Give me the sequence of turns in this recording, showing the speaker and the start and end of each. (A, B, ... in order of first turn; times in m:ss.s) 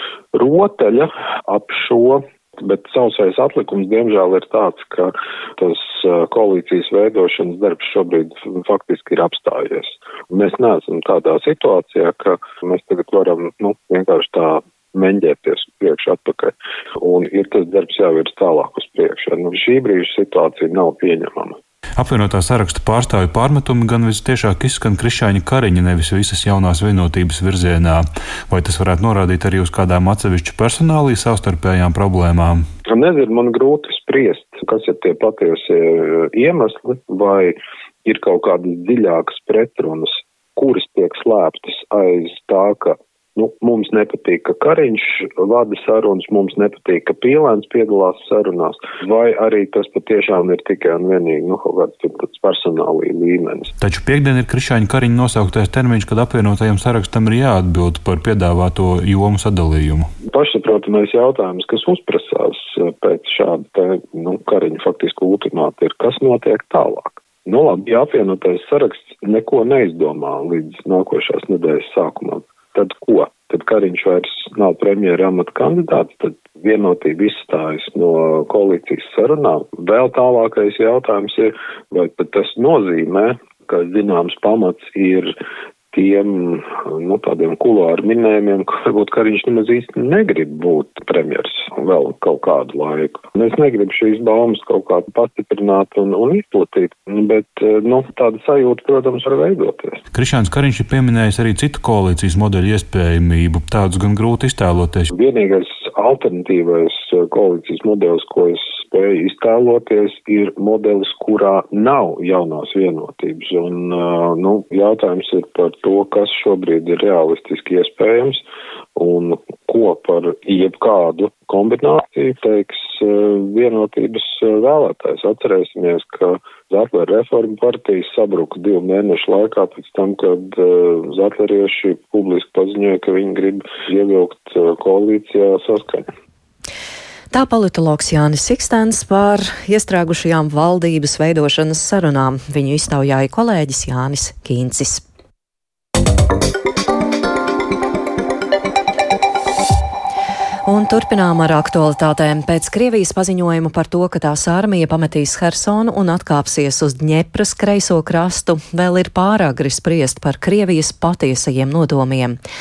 0:00.3-0:21.6 A
0:22.0-0:32.7 B
0:32.9-0:53.7 A
0:53.8-1:00.1 B
1:00.3-1:25.4 A
1:25.9-1:40.0 A
1:40.1-1:45.1 B
1:45.1-1:58.4 A
1:59.0-2:16.1 A
2:17.3-2:25.0 C
2:30.7-2:42.4 C